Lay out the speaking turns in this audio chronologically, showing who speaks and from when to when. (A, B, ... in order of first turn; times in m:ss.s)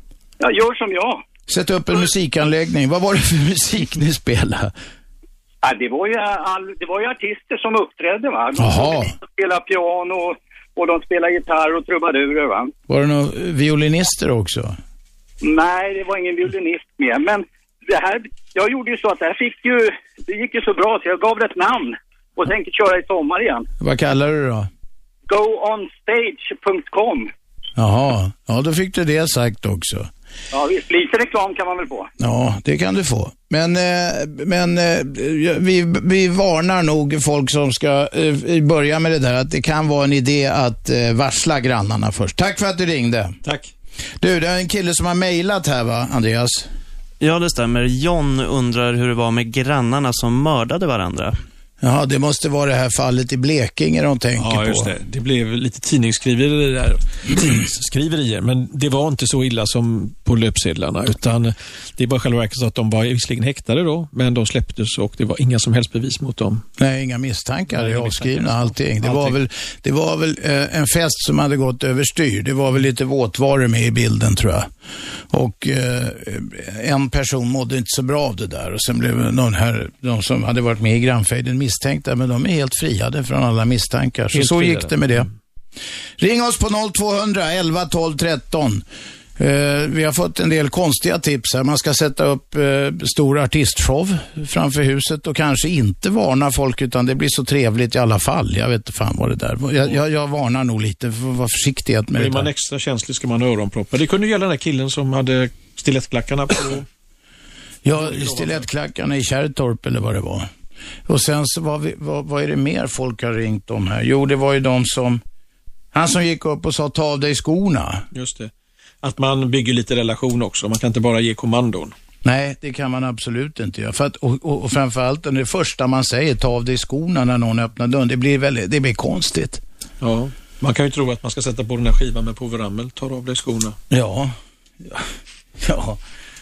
0:00.4-0:01.2 A
0:01.5-0:04.7 B
0:05.6-0:12.7 A
0:08.6-0:09.1 B
0:12.9-0:14.8 B
0:15.4-0:23.7 A
0:23.8-0:24.7 B
0:25.3-0:27.3 A
0:27.8-0:30.1 B
0:30.5-0:32.1 A
0:32.2-0:43.4 B
0:43.4-0:43.7 C
0:44.2-0:46.7 B
0:47.2-0:51.3 D
0:51.8-0:54.9 B
0:54.4-1:06.6 C
1:06.8-1:14.7 B
1:07.7-1:09.4 C
1:15.3-1:25.3 B
1:24.3-1:25.3 C
1:26.2-1:28.8 B
1:29.4-1:42.5 B
1:42.2-1:46.8 C
1:47.8-1:50.5 B
1:47.9-1:48.6 C
1:51.1-1:55.2 B
1:55.9-1:58.0 B
1:58.1-1:58.5 C
1:59.0-2:01.9 C
2:02.2-2:09.6 B
2:10.0-2:13.8 C
2:13.9-2:15.1 B
2:15.6-2:16.0 B